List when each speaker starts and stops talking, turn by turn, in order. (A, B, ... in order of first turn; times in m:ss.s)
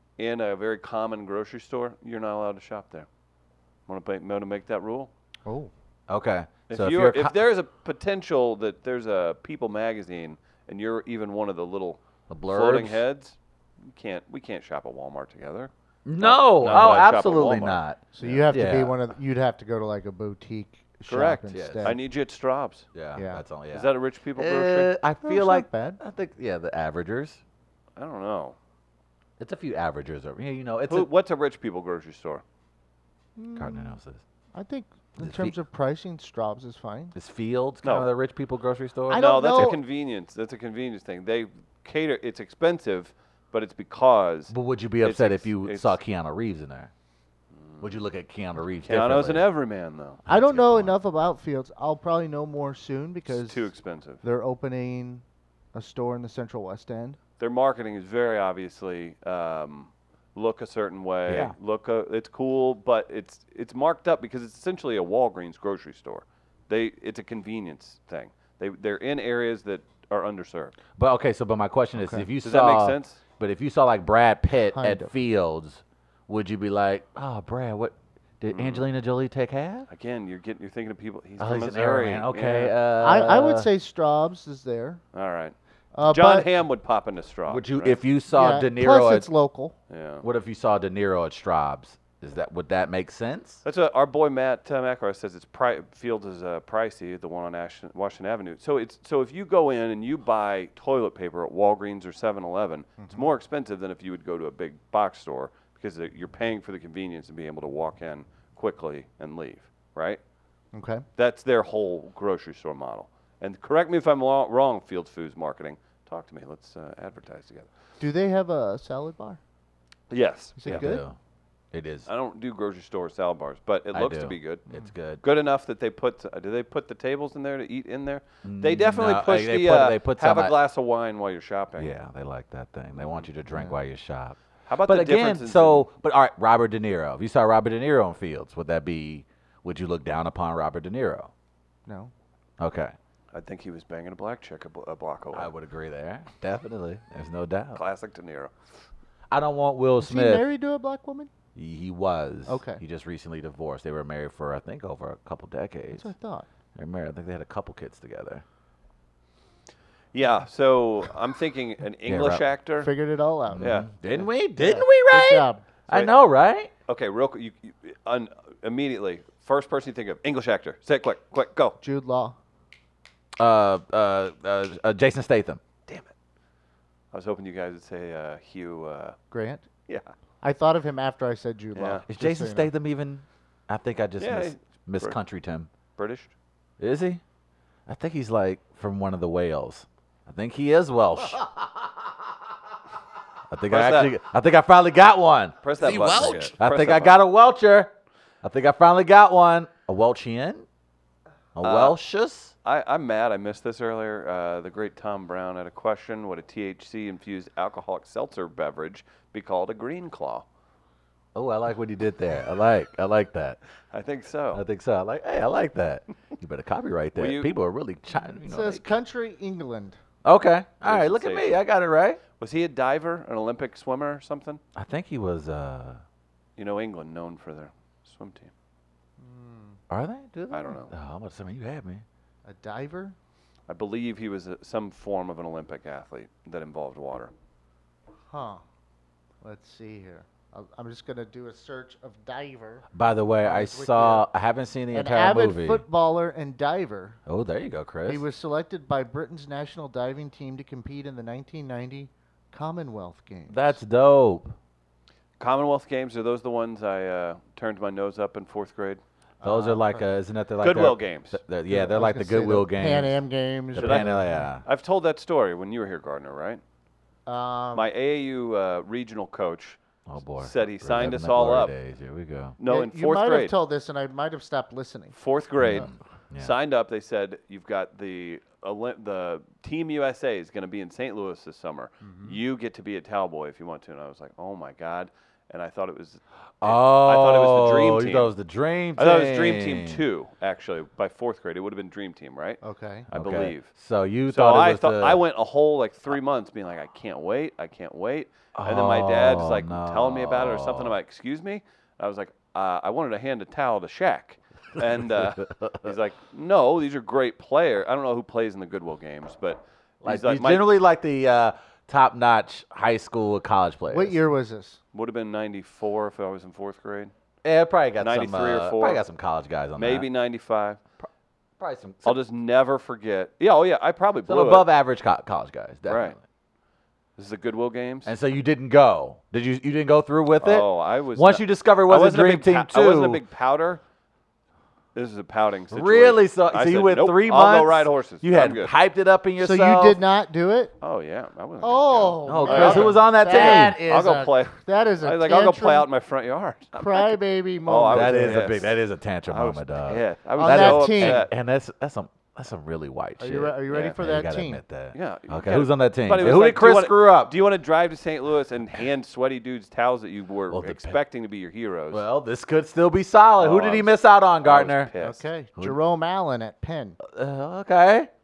0:00.2-0:03.1 A
0:03.9-0:05.1 A
0:05.4-0:05.7 B
0:06.1-0:07.4 C
0:06.7-0:13.4 A
0:12.3-0:13.0 C
0:13.9-0:18.4 A
0:16.0-0:19.0 C
0:18.1-0:22.0 B
0:21.1-0:22.9 A
0:21.5-0:22.0 C
0:22.9-0:27.4 C
0:23.2-0:23.4 B
0:23.7-0:24.9 A
0:25.2-0:26.0 B
0:28.0-0:28.6 A
0:29.4-0:31.1 C
0:30.9-0:32.4 A
0:33.4-0:34.0 B
0:33.6-0:34.2 C
0:34.5-0:37.1 B
0:35.2-0:35.6 C
0:37.1-0:39.7 C
0:37.8-0:38.1 A
0:39.1-0:39.8 B
0:39.1-0:46.0 A
0:44.5-0:46.9 C
0:47.6-0:47.9 A
0:47.8-0:49.5 C
0:48.8-0:50.8 A
0:50.3-0:50.9 C
0:50.3-0:53.7 B
0:53.3-0:54.2 A
0:54.2-0:57.2 B
0:57.4-1:10.8 A
1:01.2-1:01.5 C
1:11.0-1:19.9 C
1:12.0-1:12.3 B
1:12.4-1:13.2 A
1:14.7-1:15.1 B
1:18.5-1:18.8 A
1:19.9-1:22.7 A
1:21.4-1:23.7 C
1:23.0-1:25.0 B
1:25.1-1:28.0 A
1:25.9-1:26.5 B
1:27.5-1:29.3 C
1:28.3-1:29.7 B
1:29.9-1:30.2 A
1:30.2-1:33.6 C
1:33.6-1:50.2 A
1:43.0-1:43.2 B
1:50.7-1:51.0 B
1:51.2-1:57.7 A
1:58.0-1:59.4 B
2:00.1-2:00.9 A
2:00.6-2:01.0 B
2:00.6-2:01.2 C
2:01.7-2:02.1 C
2:02.1-2:04.6 A
2:03.9-2:05.2 C
2:05.2-2:11.9 A
2:08.4-2:10.6 C
2:11.8-2:21.3 C
2:13.0-2:13.2 A
2:13.5-2:13.8 B
2:14.7-2:15.9 A
2:21.9-2:22.1 B
2:22.6-2:22.9 C
2:23.3-2:25.5 A
2:25.3-2:27.8 C
2:27.7-2:28.5 A
2:29.3-2:30.4 C
2:30.0-2:31.3 B
2:31.5-2:36.1 C
2:32.5-2:32.8 B
2:35.9-2:36.4 B
2:36.7-2:38.4 C
2:40.1-2:42.9 A
2:42.0-2:42.4 C
2:42.8-2:43.7 B
2:43.5-2:46.7 C
2:43.6-2:44.3 A
2:44.6-2:45.6 B
2:46.9-2:51.8 A
2:51.8-2:52.4 B
2:53.4-2:55.6 C
2:57.1-2:59.2 A
2:59.3-2:59.6 B
3:00.4-3:02.7 B
3:01.7-3:02.0 A
3:02.1-3:05.7 C
3:04.2-3:05.2 A
3:06.0-3:06.3 A
3:06.8-3:07.2 C
3:07.9-3:11.7 C
3:13.5-3:20.6 C
3:13.7-3:14.1 A
3:15.6-3:17.2 A
3:21.6-3:22.5 C
3:21.6-3:22.0 A
3:22.6-3:30.4 A
3:31.3-3:33.6 C
3:33.9-3:34.6 A
3:34.5-3:38.9 C
3:37.1-3:37.5 A
3:38.4-3:40.0 B
3:40.2-3:42.2 C
3:40.8-3:41.6 A
3:42.4-3:44.6 A
3:44.7-3:46.0 C
3:46.6-3:48.5 A
3:49.2-3:49.8 B
3:49.9-3:52.0 C
3:50.5-3:50.9 A
3:52.4-3:53.1 B
3:53.7-3:57.3 A
3:58.3-3:58.6 B
3:59.4-4:02.8 B
4:02.9-4:05.8 C
4:03.4-4:04.3 B
4:04.9-4:07.2 B
4:07.2-4:08.2 C
4:08.0-4:13.8 B
4:13.5-4:14.6 C
4:15.4-4:19.0 A
4:19.4-4:20.0 B
4:19.4-4:23.2 C
4:20.6-4:21.4 A
4:21.7-4:24.5 B
4:23.7-4:24.6 C
4:23.8-4:26.6 A
4:27.2-4:27.9 B
4:27.7-4:29.8 A
4:30.0-4:32.6 C
4:30.4-4:31.7 A
4:32.6-4:33.5 A
4:32.6-4:35.1 B
4:35.1-4:48.3 A
4:35.6-4:36.6 C
4:42.0-4:42.4 B
4:46.6-4:50.0 C
4:49.0-4:52.6 A
4:52.6-4:53.1 B
4:53.1-4:55.2 C
4:53.1-4:53.7 A
4:54.3-5:10.7 A
4:58.5-5:01.0 C
5:04.8-5:05.9 C
5:10.0-5:14.2 C
5:13.9-5:14.8 B
5:14.9-5:17.1 A
5:17.4-5:20.1 C
5:18.0-5:19.0 A
5:19.8-5:20.8 A
5:21.6-5:22.2 C
5:22.0-5:24.7 A
5:24.3-5:26.2 C
5:25.9-5:26.2 A
5:27.2-5:28.1 A
5:28.0-5:33.2 C
5:30.4-5:33.8 A
5:34.9-5:38.7 A
5:35.7-5:40.0 C
5:39.4-5:40.7 B
5:40.8-5:51.3 A
5:41.6-5:45.9 B
5:42.2-5:43.8 C
5:46.7-5:48.5 B
5:47.9-5:57.3 C
5:50.4-5:51.2 B
5:53.2-5:54.6 B
5:54.9-6:02.0 A
6:00.5-6:01.0 C
6:01.9-6:04.9 C
6:03.4-6:05.2 A
6:05.0-6:07.0 B
6:07.0-6:08.1 C